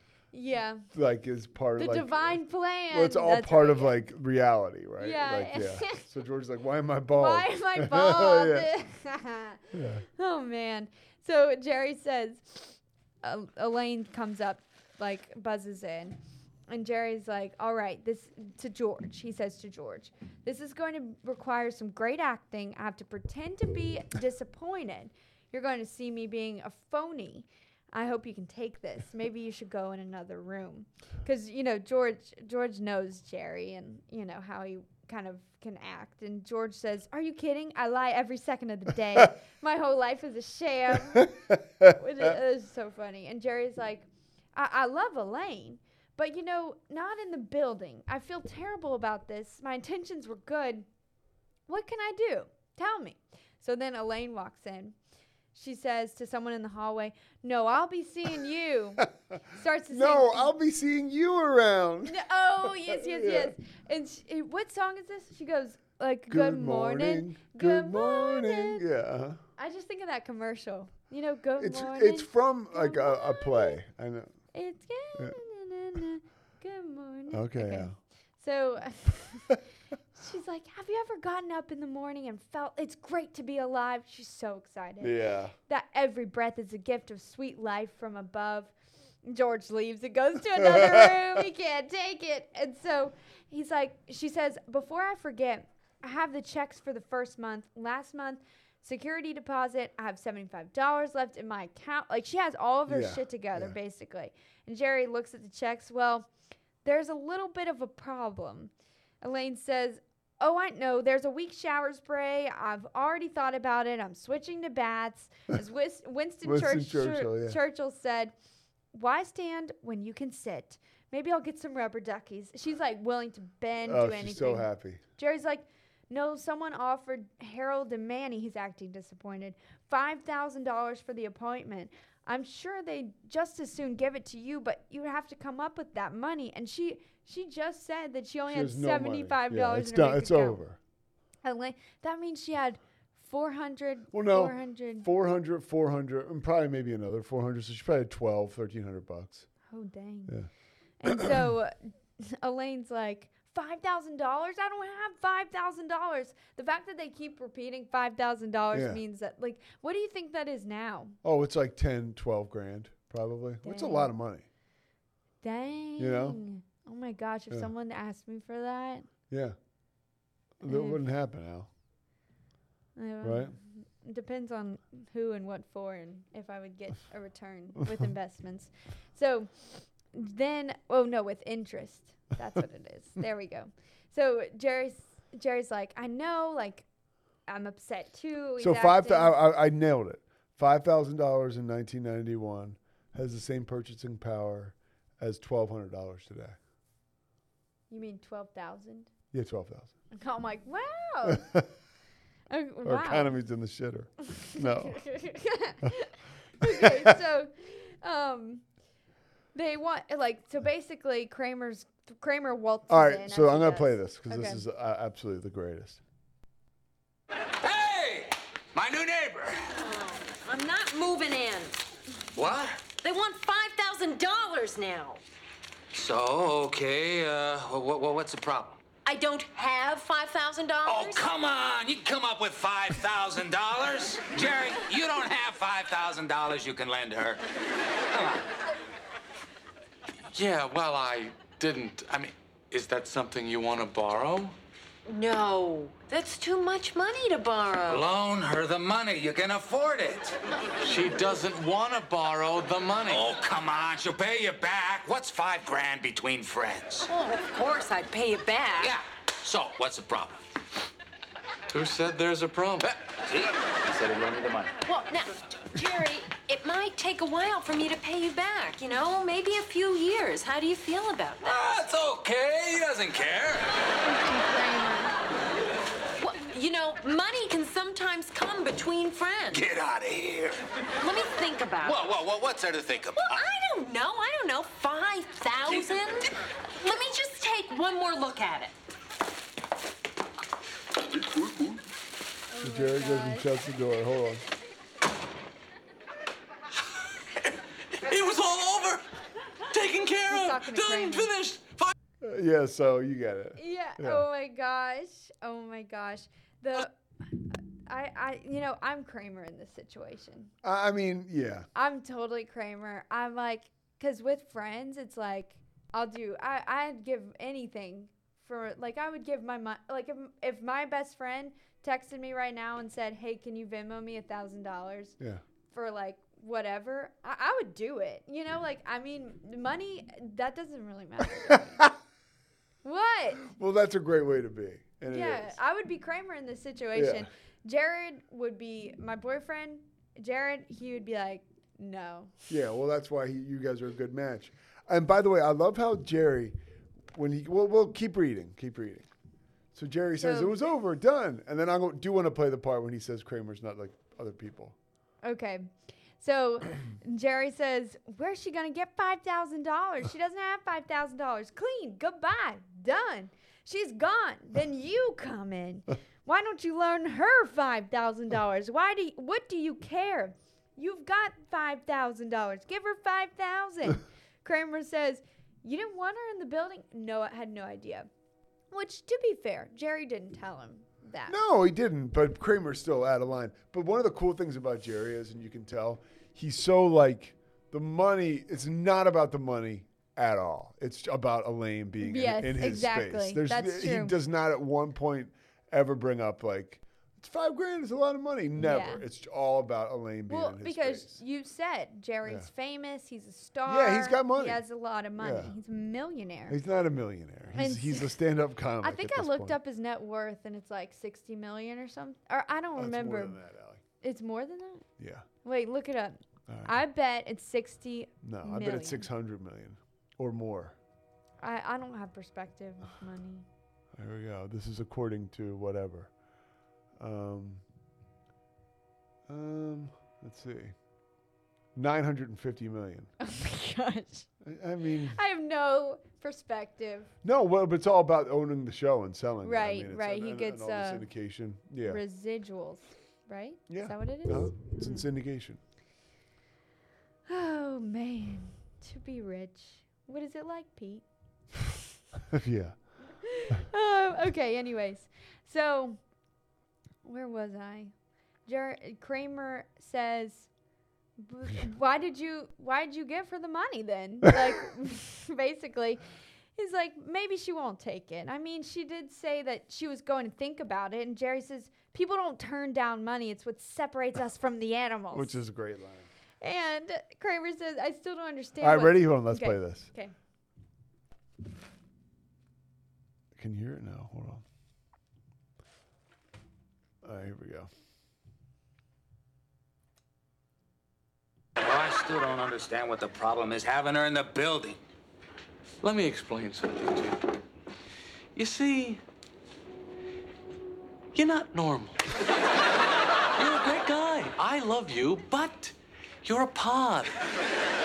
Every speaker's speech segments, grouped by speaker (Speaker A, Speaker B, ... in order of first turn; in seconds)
Speaker A: 0.3-0.9, 1.8-4.1, 5.0-6.0, 7.2-50.9, 51.7-55.0, 55.5-60.5, 62.1-68.8, 69.6-73.8, 74.5-79.6, 80.2-85.2, 85.7-88.7, 89.2-106.3, 106.8-118.3, 118.9-140.6, 141.4-145.1, 149.7-150.4, 151.0-161.2, 163.6-164.1, 165.4-169.1, 170.7-171.0, 173.0-186.9, 187.5-189.4, 197.9-199.1, 200.1-201.5, 202.5-203.3, 204.3-208.7, 209.5-214.6, 274.1-275.1, 292.5-293.5, 300.3-301.3, 303.6-310.5, 311.8-325.2, 325.7-331.9, 332.8-333.4, 335.1-342.4, 350.2-350.5, 355.2-378.1, 378.7-381.4, 392.0-394.2, 398.6-399.1, 400.3-406.6, 407.6-408.2, 408.8-413.4, 414.0-414.9, 415.4-419.1, 421.4-423.5, 433.2-434.3, 435.1-437.1, 439.4-441.1, 441.9-445.1, 447.3-451.1, 453.2-456.1, 457.0-460.5, 461.2-466.0, 466.6-475.4, 476.4-480.1
Speaker B: 0.9-8.7, 9.7-10.1, 41.2-41.9, 59.9-63.5, 66.3-69.4, 71.6-74.4, 77.3-78.0, 85.0-85.5, 90.6-91.4, 102.9-103.8, 116.4-117.6, 123.9-125.0, 138.5-140.8, 144.1-149.5, 151.1-151.3, 158.7-159.0, 161.2-164.4, 166.0-166.4, 169.3-169.6, 170.6-171.7, 173.2-173.5, 188.6-196.6, 199.3-199.9, 201.3-201.7, 202.8-205.1, 206.6-207.1, 212.9-216.0, 292.6-294.4, 302.2-304.2, 310.6-311.7, 333.4-335.6, 336.9-337.3, 342.5-346.6, 347.1-349.1, 349.7-354.8, 381.3-401.2, 403.7-404.6, 405.2-405.6, 406.5-409.6, 412.8-413.8, 415.0-415.3, 416.5-416.8, 418.2-420.8, 423.9-426.1, 427.0-427.6, 429.3-430.8, 431.8-433.1, 434.4-435.2, 437.2-442.0, 443.7-445.6, 452.3-453.0, 475.1-476.1, 478.6-479.9, 483.4-484.4, 487.0-487.7
Speaker C: 217.6-219.6, 222.3-222.8, 225.9-228.8, 230.8-237.4, 238.1-238.4, 247.9-250.3, 253.1-257.1, 258.8-260.4, 263.3-264.8, 271.6-273.6, 279.5-280.6, 281.8-283.4, 491.6-494.8
Speaker D: 219.8-221.8, 223.0-225.2, 229.1-231.3, 245.1-248.1, 257.1-258.9, 264.9-271.5, 276.2-279.6, 281.0-282.1, 283.2-288.8
Speaker E: 240.3-244.6, 250.8-253.3, 261.7-263.1, 271.5-273.4, 298.0-299.1, 299.7-301.9, 495.8-497.2, 498.4-499.0, 501.1-502.1, 503.4-507.2